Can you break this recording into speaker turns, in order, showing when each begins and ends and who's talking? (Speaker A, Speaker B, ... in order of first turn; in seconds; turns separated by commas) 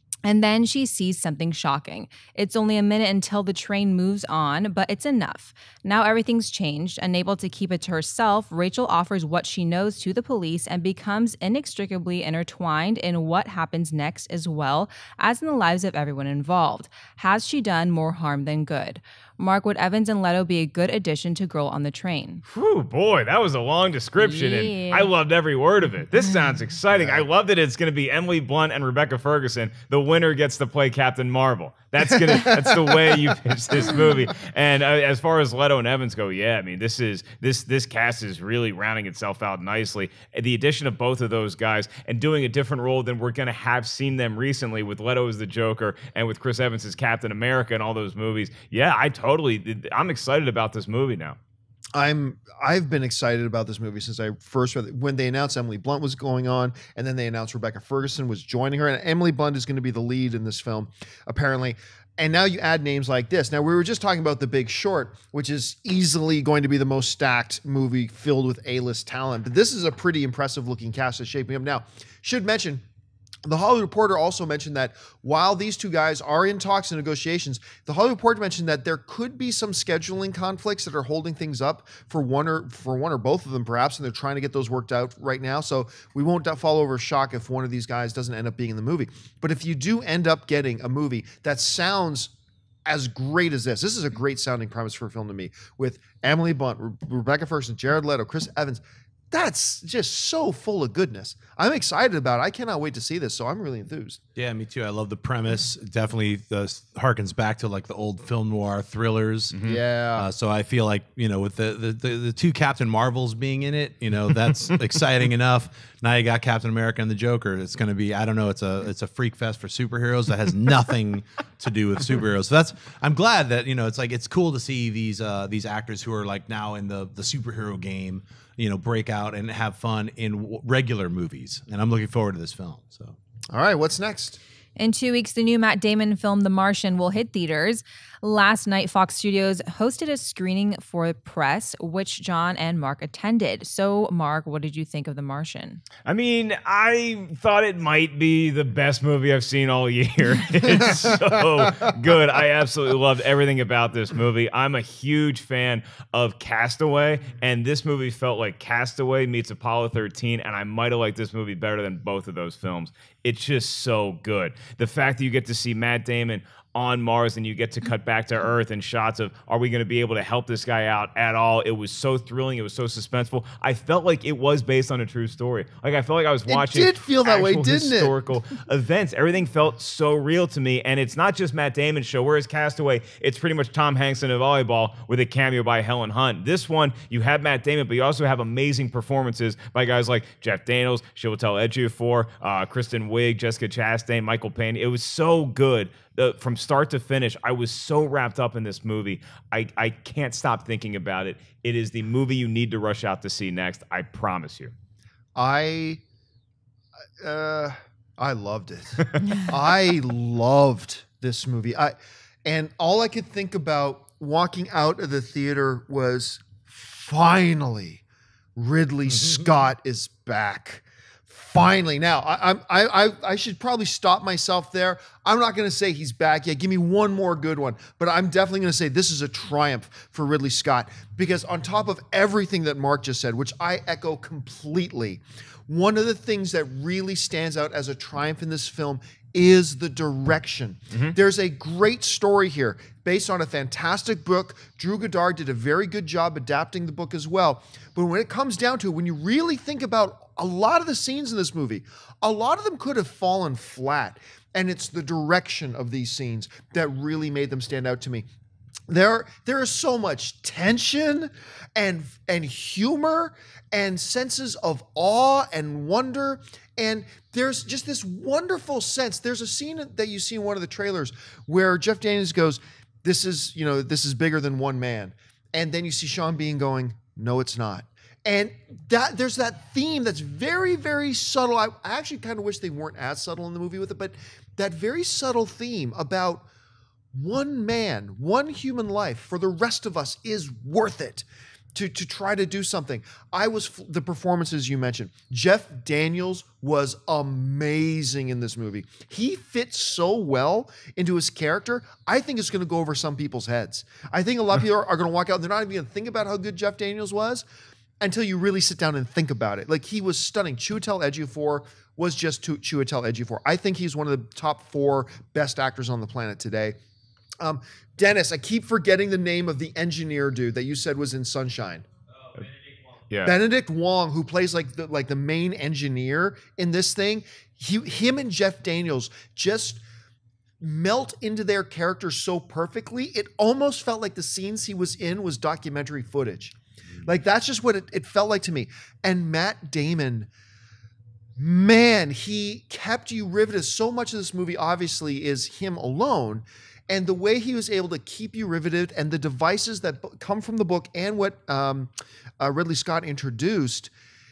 Speaker A: 0.2-22.4, Speaker B: 22.5-51.4, Speaker A: 24.2-25.1, Speaker C: 27.0-27.2, Speaker D: 32.3-33.4, Speaker D: 52.0-72.8, Speaker D: 73.5-92.3, Speaker D: 92.9-104.2, Speaker C: 104.4-109.6, Speaker B: 109.5-109.8, Speaker D: 109.6-110.3, Speaker C: 110.2-133.2, Speaker D: 133.5-134.4, Speaker A: 134.8-145.8, Speaker B: 146.1-204.7, Speaker D: 176.5-178.1, Speaker D: 205.4-206.0, Speaker D: 207.2-218.0, Speaker D: 218.6-258.2, Speaker C: 219.1-219.4, Speaker D: 258.9-286.5, Speaker D: 287.1-307.4, Speaker D: 308.0-316.8, Speaker D: 317.4-321.8, Speaker B: 323.1-323.4, Speaker D: 323.2-329.8, Speaker D: 330.6-340.3, Speaker D: 341.4-353.9